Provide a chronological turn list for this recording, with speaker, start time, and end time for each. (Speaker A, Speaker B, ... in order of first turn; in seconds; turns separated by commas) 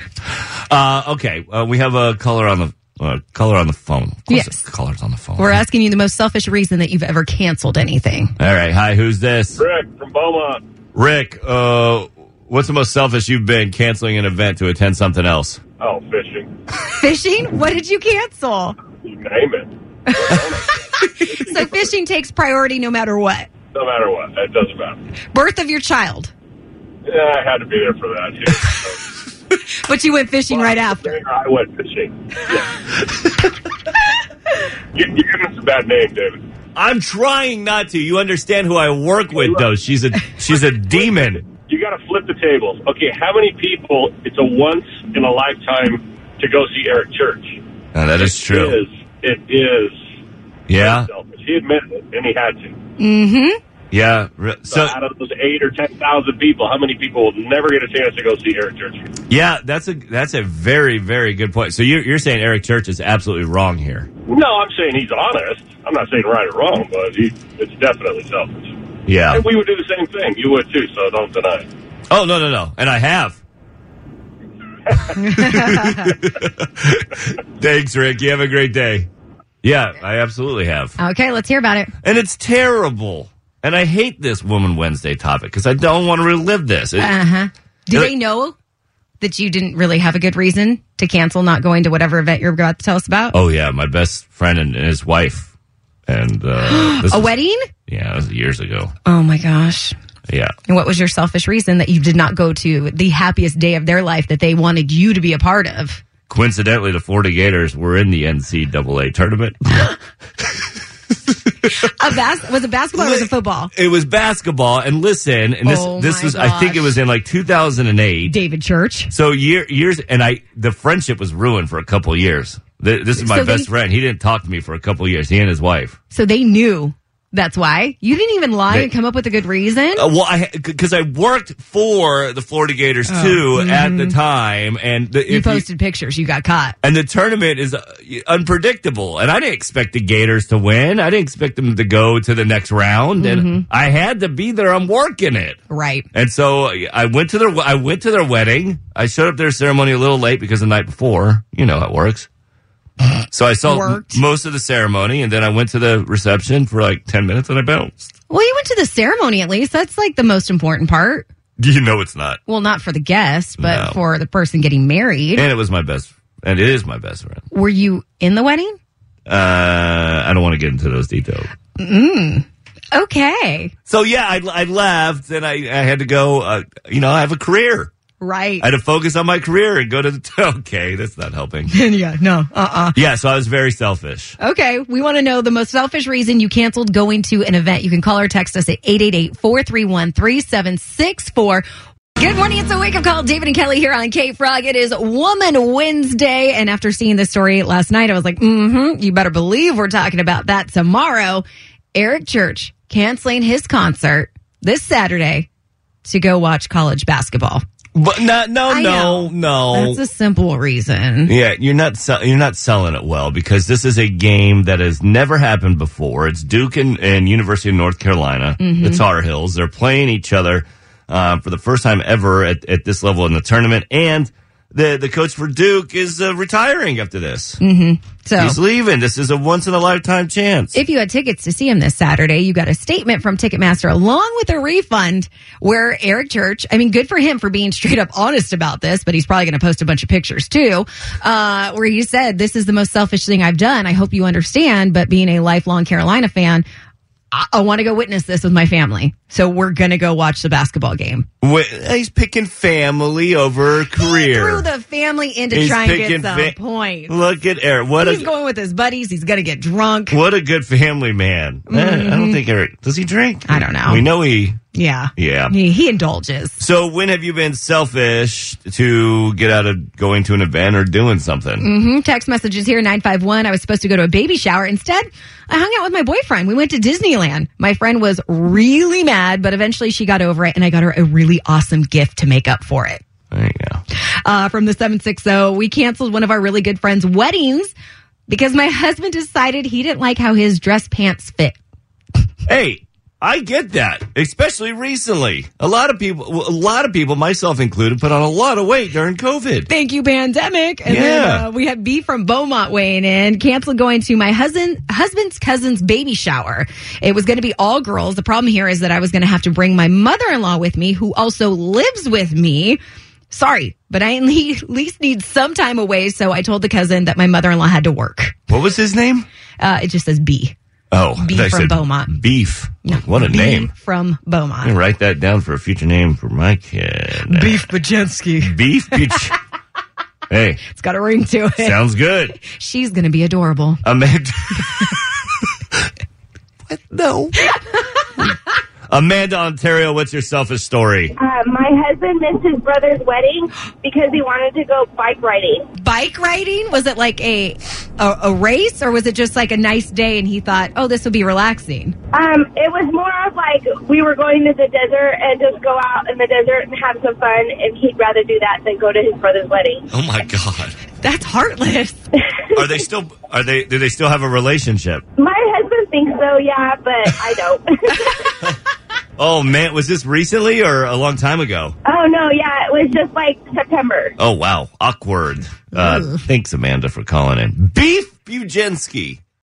Speaker A: 0.2-5.6, Speaker B: 4.3-4.6, Speaker B: 5.4-8.3, Speaker A: 8.4-9.6, Speaker C: 9.6-10.6, Speaker A: 10.9-15.6, Speaker C: 15.8-16.5, Speaker B: 16.8-18.8, Speaker C: 19.0-21.6, Speaker B: 20.1-23.5, Speaker C: 23.7-25.0, Speaker B: 25.3-26.3, Speaker C: 27.1-29.0, Speaker B: 29.7-31.2, Speaker C: 30.5-32.8, Speaker C: 34.9-36.4, Speaker A: 36.8-41.4, Speaker C: 41.1-47.6, Speaker A: 47.9-48.8, Speaker C: 48.2-50.0, Speaker A: 50.7-51.1, Speaker C: 50.8-52.8, Speaker B: 53.0-53.6, Speaker A: 53.9-55.0, Speaker C: 54.7-59.1, Speaker A: 59.3-64.1, Speaker C: 64.3-68.8, Speaker A: 69.1-69.5, Speaker C: 69.3-71.7, Speaker A: 72.1-73.4, Speaker C: 74.9-75.2, Speaker A: 75.2-79.1, Speaker B: 75.3-76.0, Speaker A: 79.6-81.0, Speaker B: 81.0-81.9, Speaker A: 82.0-87.1, Speaker B: 87.0-88.5, Speaker B: 89.2-93.3, Speaker A: 93.3-95.5, Speaker A: 96.1-97.3, Speaker B: 96.7-97.7, Speaker A: 97.9-98.9, Speaker B: 99.1-100.0, Speaker A: 100.3-100.5, Speaker B: 100.7-106.0, Speaker A: 106.3-110.0, Speaker B: 111.6-113.7, Speaker A: 113.0-118.3, Speaker B: 115.6-117.0, Speaker B: 118.2-119.1, Speaker A: 119.1-126.0, Speaker B: 123.2-123.7, Speaker B: 126.1-130.1, Speaker A: 129.9-135.7, Speaker B: 133.1-134.2, Speaker B: 135.3-136.8, Speaker A: 136.8-145.6, Speaker B: 143.2-143.7, Speaker B: 145.7-146.1, Speaker A: 146.1-152.3, Speaker A: 153.3-158.1, Speaker B: 153.6-154.2, Speaker B: 158.3-161.3, Speaker A: 161.6-162.4, Speaker B: 162.5-165.5, Speaker A: 163.6-164.0, Speaker A: 165.3-167.5, Speaker B: 167.5-168.8, Speaker A: 169.3-171.5, Speaker B: 171.8-173.7, Speaker A: 173.9-177.9, Speaker B: 178.2-178.7, Speaker A: 178.6-181.8, Speaker B: 181.7-183.0, Speaker A: 182.9-184.4, Speaker B: 184.4-191.7, Speaker B: 192.2-205.5, Speaker B: 206.0-207.6, Speaker A: 207.9-210.0, Speaker B: 208.7-211.3, Speaker A: 211.3-227.6, Speaker B: 218.6-219.0, Speaker B: 227.6-228.6, Speaker A: 228.4-230.8, Speaker B: 230.7-246.7, Speaker B: 247.3-251.3, Speaker A: 251.4-254.7, Speaker B: 254.0-257.2, Speaker A: 255.5-256.6, Speaker A: 257.1-258.3, Speaker B: 258.0-260.2, Speaker A: 260.1-264.6, Speaker B: 261.7-262.4, Speaker B: 263.5-264.1, Speaker B: 264.7-266.6, Speaker A: 265.2-265.5, Speaker A: 266.6-271.7, Speaker B: 271.6-283.0, Speaker A: 283.3-283.8, Speaker B: 284.1-287.7, Speaker B: 288.3-291.6, Speaker A: 292.5-299.7, Speaker B: 299.7-312.8, Speaker A: 300.9-301.5, Speaker B: 313.3-318.4, Speaker A: 318.5-319.3, Speaker B: 319.6-320.6, Speaker A: 320.9-323.7, Speaker B: 321.2-322.1, Speaker B: 322.9-324.7, Speaker A: 324.6-327.7, Speaker B: 327.3-329.2, Speaker A: 328.4-329.4, Speaker A: 330.3-330.6, Speaker B: 330.7-331.8, Speaker A: 331.6-332.4, Speaker B: 332.4-333.8, Speaker A: 333.8-335.8, Speaker A: 336.7-337.6, Speaker A: 338.9-341.1, Speaker D: 341.2-345.6, Speaker B: 345.8-352.0, Speaker D: 352.2-359.9, Speaker A: 359.9-360.8, Speaker B: 361.0-362.1, Speaker A: 362.6-365.0, Speaker D: 365.2-368.4, Speaker A: 369.2-371.8, Speaker D: 371.9-374.1, Speaker A: 374.2-379.2